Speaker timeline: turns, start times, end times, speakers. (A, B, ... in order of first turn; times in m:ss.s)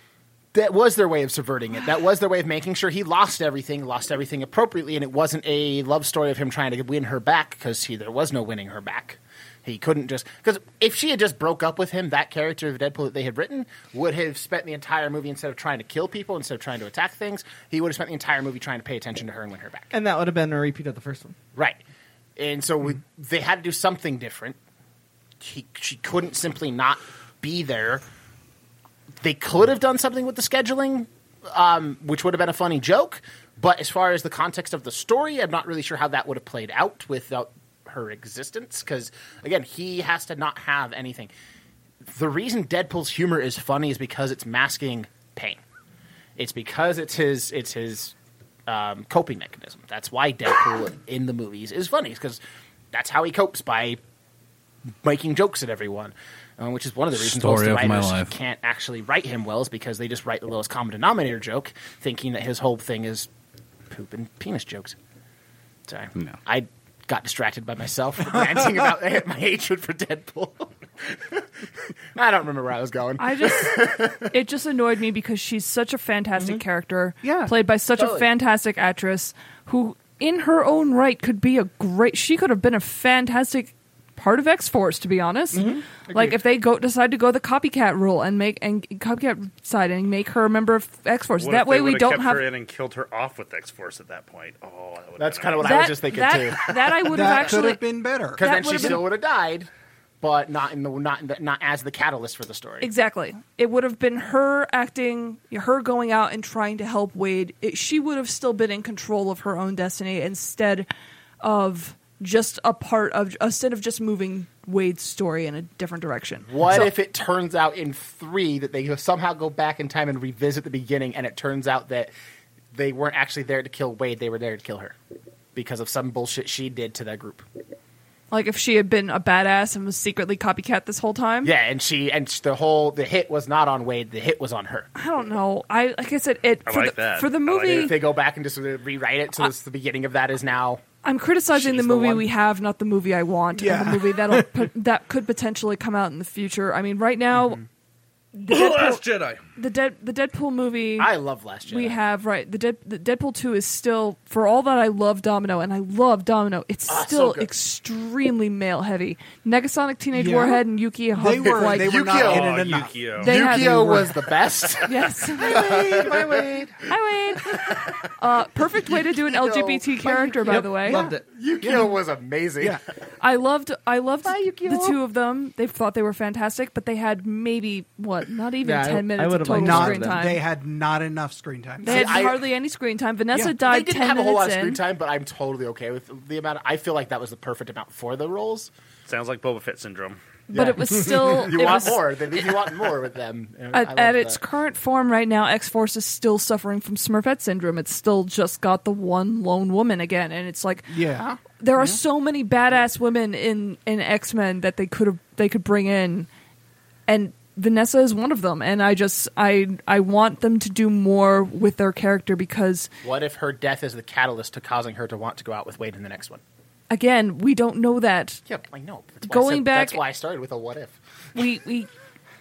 0:00.5-0:19.9 A
0:19.9-0:21.4 B
0:22.4-0:24.6 A
0:25.4-0:28.0 A
0:29.2-0:41.3 A
0:42.1-0:45.6 A
0:46.4-0:48.1 A
0:48.7-0:52.4 A
0:52.9-0:54.0 A
0:55.0-1:03.3 A
0:57.1-0:58.3 C
1:03.9-1:05.0 A
1:05.9-1:11.4 A
1:12.2-1:14.3 A
1:13.2-1:13.8 D
1:14.3-1:32.5 D
1:17.2-1:17.5 E
1:18.0-1:18.3 A
1:25.6-1:26.3 E
1:31.4-1:35.9 F
1:35.2-1:36.7 A
1:35.6-1:37.8 D
1:37.1-1:39.0 E
1:38.4-1:39.7 A
1:38.4-1:39.0 D
1:40.2-1:42.9 A
1:42.8-1:50.9 D
1:51.4-1:56.9 D
1:56.5-2:02.1 A
2:02.7-2:05.0 A
2:05.6-2:07.4 A
2:08.3-2:11.5 D
2:11.4-2:14.9 A
2:15.0-2:17.9 D
2:16.7-2:17.9 F
2:17.6-2:20.8 A
2:21.0-2:27.6 D
2:21.5-2:22.3 A
2:23.5-2:24.5 E
2:27.4-2:27.6 E
2:28.4-2:29.0 D
2:28.5-2:29.4 C
2:29.6-2:31.1 D
2:31.0-2:32.0 A
2:31.7-2:42.1 D
2:36.9-2:37.5 A
2:40.1-2:40.6 E
2:41.1-2:44.2 E
2:41.4-2:46.6 A
2:42.1-2:43.4 F
2:43.2-2:44.1 D
2:44.8-2:45.7 D
2:45.4-2:46.8 B
2:46.9-2:51.0 D
2:47.5-2:48.0 A
2:48.8-2:52.8 A
2:50.4-2:51.2 B
2:50.9-2:52.0 E
2:53.2-3:00.4 D
2:54.2-2:55.0 A
2:58.6-3:00.3 B
2:59.4-3:02.3 E
3:01.8-3:02.4 A
3:01.8-3:04.8 D
3:03.3-3:03.6 E
3:03.6-3:08.7 A
3:09.1-3:10.2 F
3:10.5-3:12.1 D
3:10.5-3:14.4 A
3:13.7-3:26.3 D
3:20.9-3:22.0 E
3:27.1-3:32.9 D
3:33.0-3:36.4 A
3:36.9-3:38.4 D
3:38.5-3:41.0 A
3:39.3-3:40.0 D
3:41.4-3:41.9 D